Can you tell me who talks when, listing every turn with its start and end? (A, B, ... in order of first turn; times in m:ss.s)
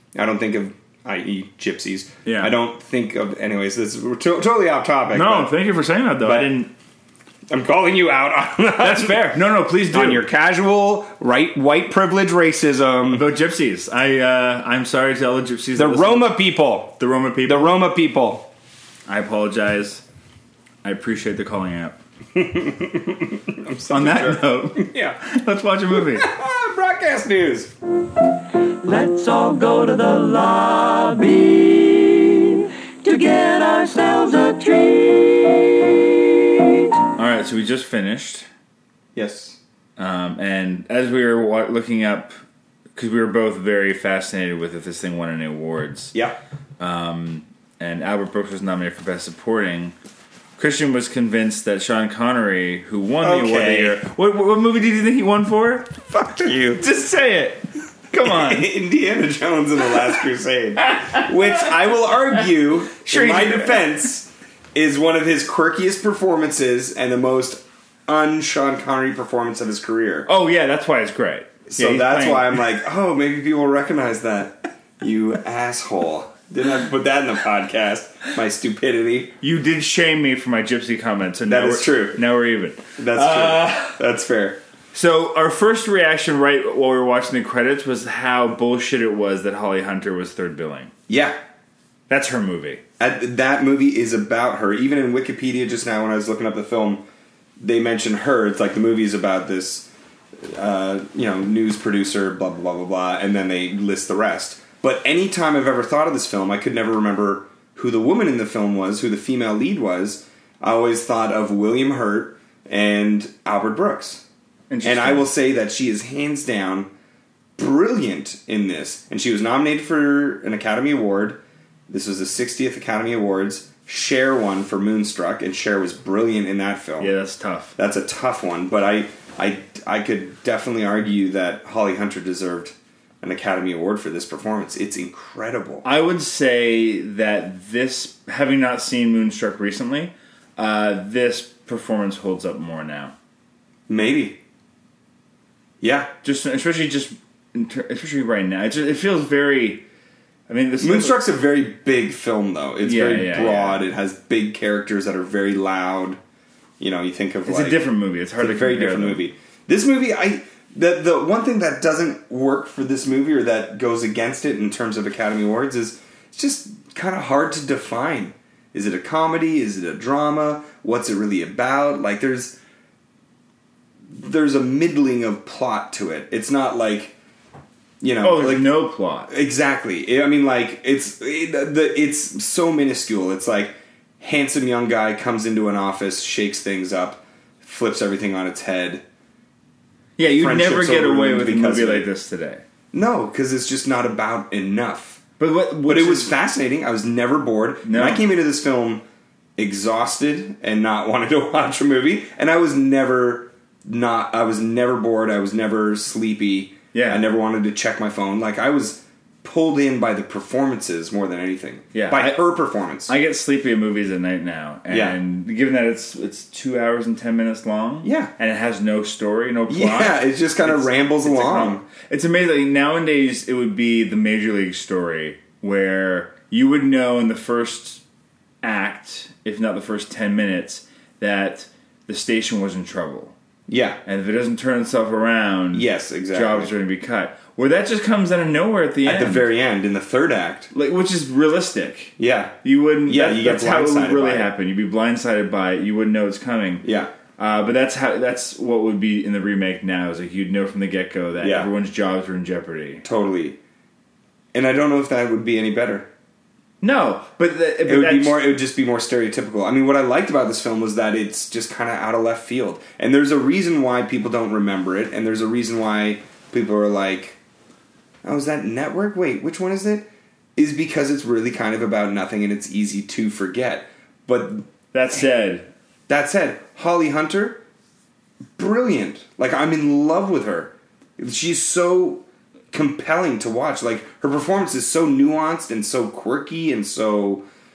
0:00.2-0:05.6 A
0:02.2-0:02.6 B
0:05.1-0:06.7 B
0:06.2-0:06.5 A
0:07.5-0:13.3 A
0:08.8-0:10.3 B
0:13.1-0:16.4 B
0:15.8-0:18.5 A
0:17.0-0:17.8 B
0:19.1-0:20.0 B
0:20.8-0:22.0 B
0:22.4-0:25.2 A
0:23.9-0:26.3 B
0:25.9-0:27.7 A
0:28.8-0:36.9 C
0:37.2-0:38.5 B
0:39.2-0:39.6 A
0:40.0-0:42.4 B
0:43.0-0:46.1 B
0:46.1-0:46.4 A
0:46.8-0:50.0 B
0:50.6-0:56.0 B
0:53.2-0:54.0 A
0:56.1-0:56.8 A
0:56.8-0:58.7 B
0:58.2-1:10.3 A
1:00.9-1:01.3 B
1:03.0-1:03.8 B
1:10.3-1:12.7 B
1:11.7-1:19.4 A
1:19.4-1:24.0 B
1:21.5-1:22.2 A
1:23.0-1:24.6 A
1:24.9-1:30.9 B
1:31.1-1:31.4 A
1:32.1-1:32.8 B
1:33.0-1:37.0 A
1:37.6-1:54.2 A
1:54.7-1:55.3 B
1:54.8-1:56.9 A
1:57.6-2:07.1 A
2:07.0-2:07.8 B
2:07.8-2:15.8 A
2:15.8-2:23.1 B
2:23.9-2:24.4 A
2:25.8-2:26.1 A
2:26.2-2:29.8 B
2:30.5-2:31.2 B
2:30.8-2:36.2 A
2:32.8-2:33.8 B
2:36.8-2:37.8 A
2:37.5-2:39.2 B
2:38.4-2:52.6 A
2:54.1-2:57.2 A
2:58.0-2:58.7 A
2:58.2-2:59.3 B
2:59.3-3:09.0 A
3:10.2-3:12.6 B
3:10.4-3:12.1 A
3:12.9-3:15.2 A
3:15.4-3:16.4 B
3:15.9-3:19.0 A
3:17.8-3:18.2 B
3:19.6-3:33.1 A
3:26.9-3:27.2 B
3:31.9-3:32.4 B
3:33.1-3:48.0 B
3:34.9-3:35.2 A
3:38.0-3:38.3 A
3:39.7-3:41.8 A
3:48.6-3:53.3 B
3:53.7-3:54.0 A
3:54.0-3:59.5 B
3:55.7-3:56.7 A
3:59.0-4:00.7 A
4:00.7-4:06.8 B
4:02.2-4:04.5 A
4:06.8-4:07.1 A
4:07.4-4:13.0 B
4:11.4-4:11.7 A
4:13.0-4:13.6 A
4:14.5-4:16.1 A
4:16.8-4:18.5 B
4:17.9-4:27.4 A
4:28.2-4:34.7 A
4:34.9-4:35.7 B
4:36.1-4:37.6 A
4:38.6-4:47.4 A